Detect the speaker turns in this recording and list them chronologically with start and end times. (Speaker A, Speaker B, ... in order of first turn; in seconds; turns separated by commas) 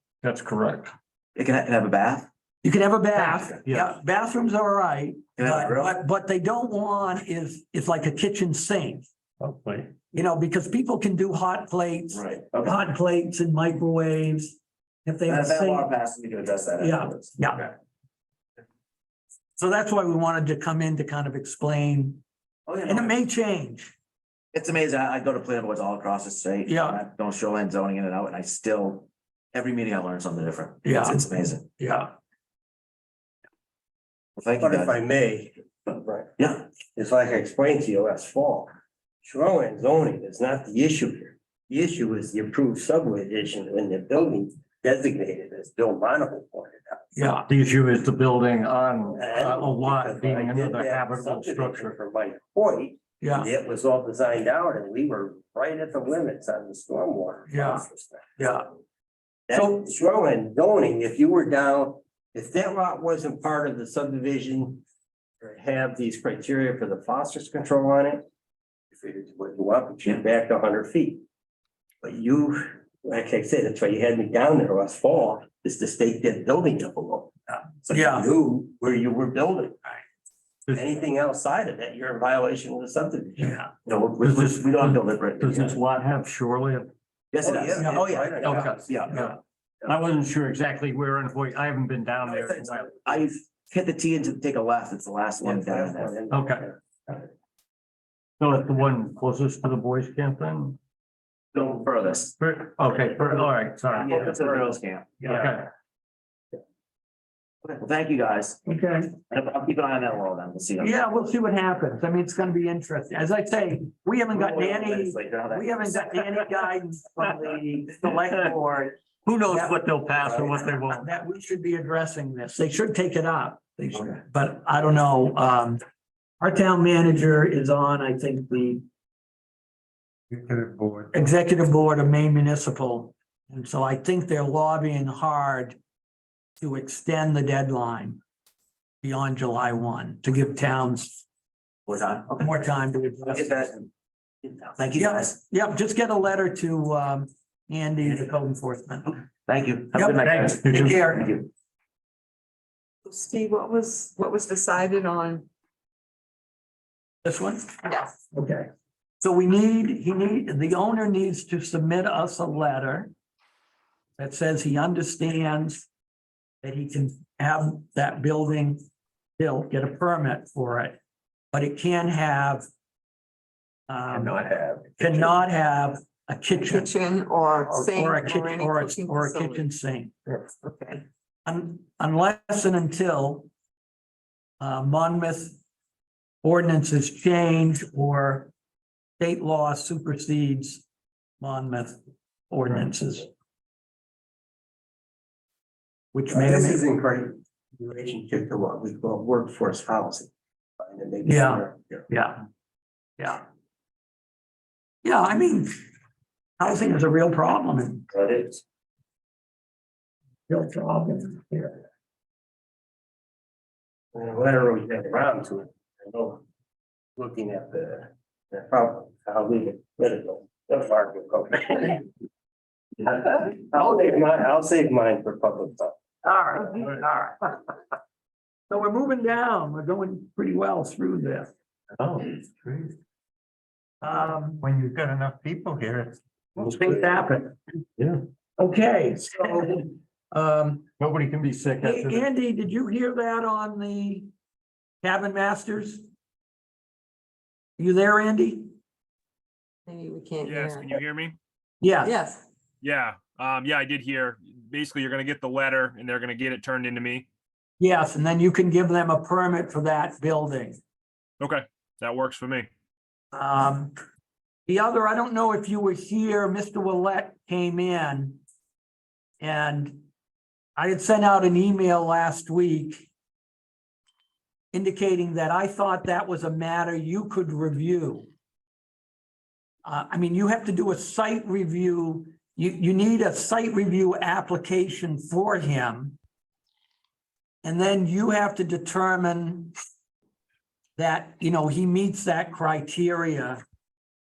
Speaker A: 0.2-0.9, Speaker B: 1.4-2.3, Speaker C: 2.6-9.1, Speaker A: 3.5-3.9, Speaker B: 5.4-6.0, Speaker A: 9.4-9.9, Speaker C: 10.1-15.9, Speaker B: 12.1-12.8, Speaker B: 15.3-17.7, Speaker C: 16.8-17.7, Speaker C: 19.6-22.2, Speaker B: 22.7-23.1, Speaker C: 22.9-23.9, Speaker B: 24.5-31.7, Speaker C: 26.7-27.0, Speaker C: 30.8-32.1, Speaker B: 34.4-35.0, Speaker D: 34.6-36.4, Speaker B: 36.4-36.6, Speaker D: 37.0-38.7, Speaker D: 39.2-47.1, Speaker C: 47.1-47.5, Speaker A: 47.5-52.0, Speaker D: 49.1-58.5, Speaker C: 53.2-53.5, Speaker C: 57.5-57.8, Speaker C: 58.4-58.7, Speaker D: 59.5-64.8, Speaker C: 59.5-59.8, Speaker D: 65.4-68.2, Speaker D: 68.9-71.2, Speaker D: 72.0-79.8, Speaker C: 77.9-78.3, Speaker A: 80.7-81.0, Speaker D: 80.7-83.5, Speaker C: 83.4-83.7, Speaker B: 83.9-85.8, Speaker A: 84.2-86.9, Speaker B: 87.3-89.3, Speaker D: 87.4-89.0, Speaker A: 88.4-93.1, Speaker B: 93.1-96.2, Speaker D: 95.4-97.2, Speaker A: 96.3-96.7, Speaker A: 98.4-100.8, Speaker B: 101.5-102.3, Speaker A: 102.4-104.5, Speaker B: 103.9-105.2, Speaker A: 105.2-105.7, Speaker B: 107.6-108.6, Speaker C: 108.7-109.1, Speaker B: 109.2-111.0, Speaker C: 110.8-119.8, Speaker B: 114.3-116.2, Speaker A: 119.3-121.0, Speaker C: 120.9-125.8, Speaker C: 126.4-128.8, Speaker C: 131.1-135.8, Speaker C: 136.6-138.2, Speaker C: 139.0-141.2, Speaker B: 141.9-142.4, Speaker C: 142.3-143.7, Speaker B: 143.3-143.9, Speaker B: 144.4-145.3, Speaker C: 144.9-149.2, Speaker B: 149.5-151.5, Speaker C: 149.9-151.4, Speaker A: 150.3-150.9, Speaker E: 153.1-155.5, Speaker C: 157.2-158.7, Speaker E: 157.8-158.1, Speaker C: 159.2-163.1, Speaker C: 164.2-165.9, Speaker C: 166.6-168.8, Speaker C: 169.4-171.0, Speaker C: 171.5-172.7, Speaker C: 173.9-174.4, Speaker A: 174.5-174.8, Speaker C: 175.0-176.9, Speaker E: 176.6-179.7, Speaker C: 177.7-180.2, Speaker E: 180.4-181.0, Speaker C: 181.5-183.5, Speaker C: 184.6-185.6, Speaker C: 186.4-188.5, Speaker C: 189.2-190.8, Speaker C: 191.4-193.3, Speaker C: 196.1-196.8, Speaker D: 196.3-202.1, Speaker C: 201.2-202.4, Speaker C: 203.2-203.4, Speaker C: 205.0-205.8, Speaker C: 206.6-208.1, Speaker D: 208.2-208.6, Speaker C: 210.5-211.8, Speaker D: 214.1-216.4, Speaker D: 217.2-222.1, Speaker D: 223.0-225.9, Speaker C: 226.2-227.7, Speaker C: 228.7-231.5, Speaker A: 232.0-232.3, Speaker C: 234.0-234.6, Speaker D: 234.7-236.2, Speaker C: 236.6-237.6, Speaker D: 236.7-237.0, Speaker C: 238.6-240.9, Speaker A: 241.0-242.3, Speaker C: 241.8-244.3, Speaker C: 245.0-246.1, Speaker C: 247.8-248.7, Speaker E: 249.9-251.0, Speaker F: 250.4-251.4, Speaker C: 251.8-252.2, Speaker E: 252.0-252.4, Speaker F: 252.8-257.3, Speaker C: 257.8-260.8, Speaker F: 261.4-262.7, Speaker C: 263.3-263.9, Speaker C: 264.7-268.4, Speaker C: 269.4-270.0, Speaker C: 270.8-273.1, Speaker C: 274.7-278.3, Speaker C: 279.9-286.2, Speaker C: 287.6-289.7, Speaker C: 291.0-293.6